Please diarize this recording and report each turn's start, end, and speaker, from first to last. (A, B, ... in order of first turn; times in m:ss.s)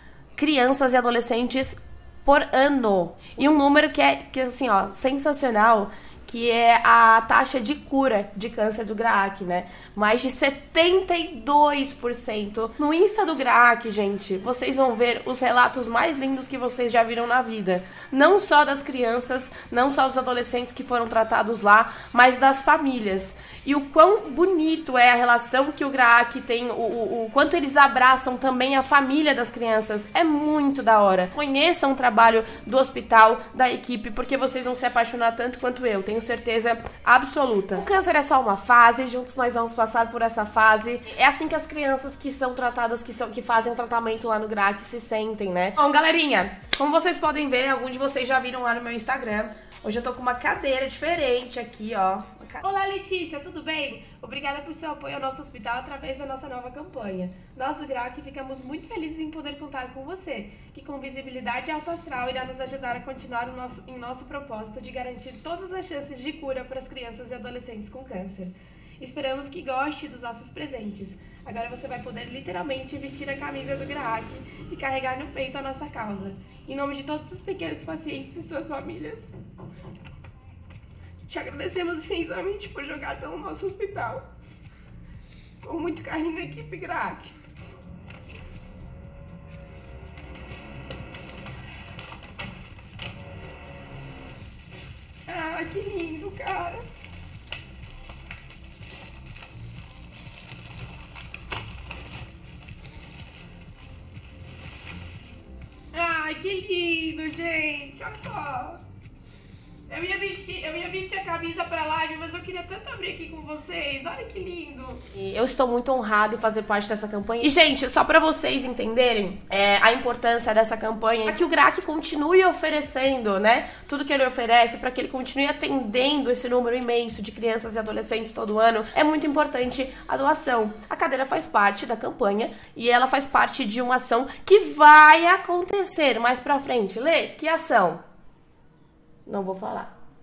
0:00.4-1:19.3 A
1:21.3-1:24.2 A
1:25.6-1:27.3 A
1:35.3-1:36.9 A
1:45.9-1:48.8 A
1:49.9-2:18.0 A
2:19.2-2:19.9 A